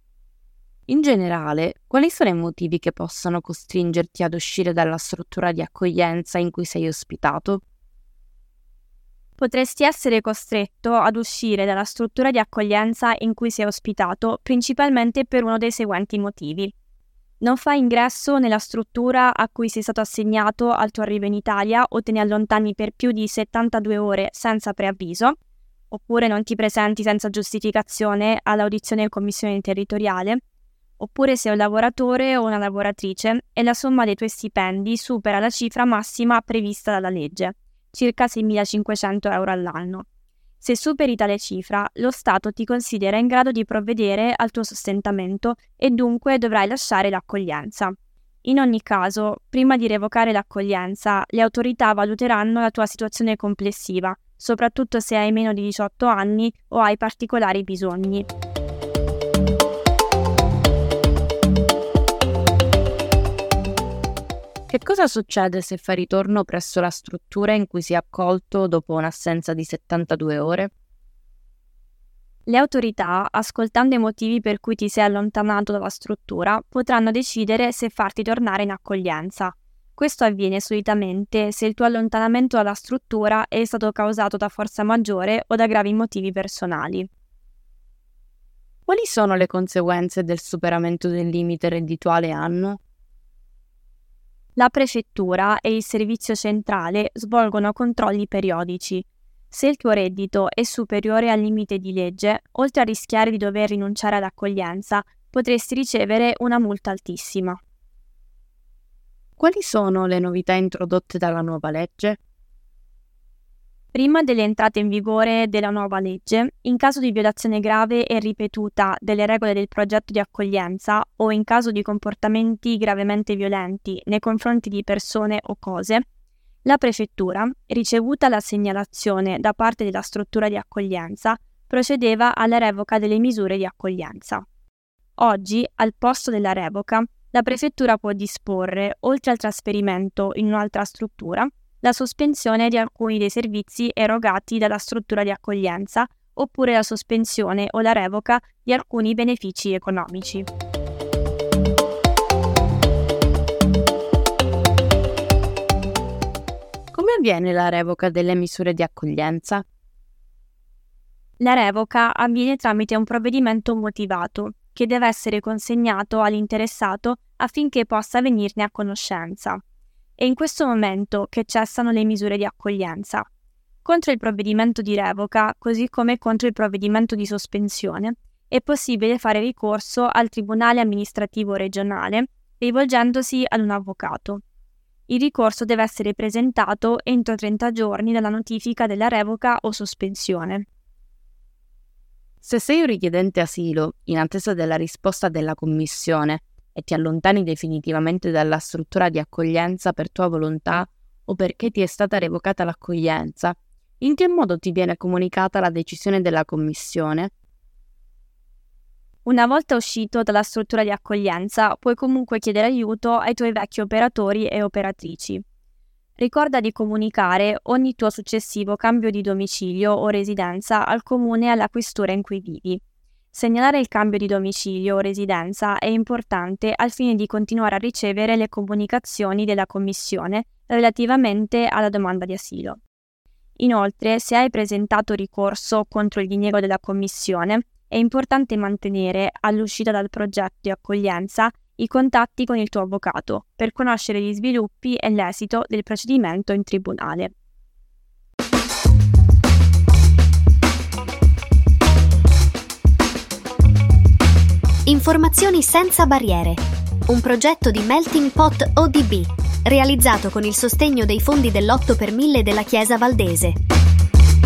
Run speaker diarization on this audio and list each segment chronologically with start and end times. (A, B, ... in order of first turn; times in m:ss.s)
0:00.9-0:07.6 A
0:09.4-0:16.7 B
0:17.4-0:25.4 B
0:25.9-0:30.4 B
0:31.0-0:40.1 B
0:40.6-0:58.3 B
1:04.7-1:10.7 A
1:12.5-1:27.1 B
1:28.9-1:32.8 A
1:34.6-1:47.6 B
1:49.4-1:52.2 A
1:53.9-2:06.0 B
2:06.6-2:14.4 B
2:15.2-2:30.5 B
2:36.9-2:39.6 A
2:41.4-2:49.6 B
2:50.2-2:53.2 B
2:53.8-3:04.4 B
3:05.1-3:10.7 B
3:12.4-3:27.3 A
3:29.3-3:35.4 B
3:36.2-3:42.8 B
3:43.3-3:52.8 B
3:53.6-4:07.3 B
4:14.9-4:23.6 C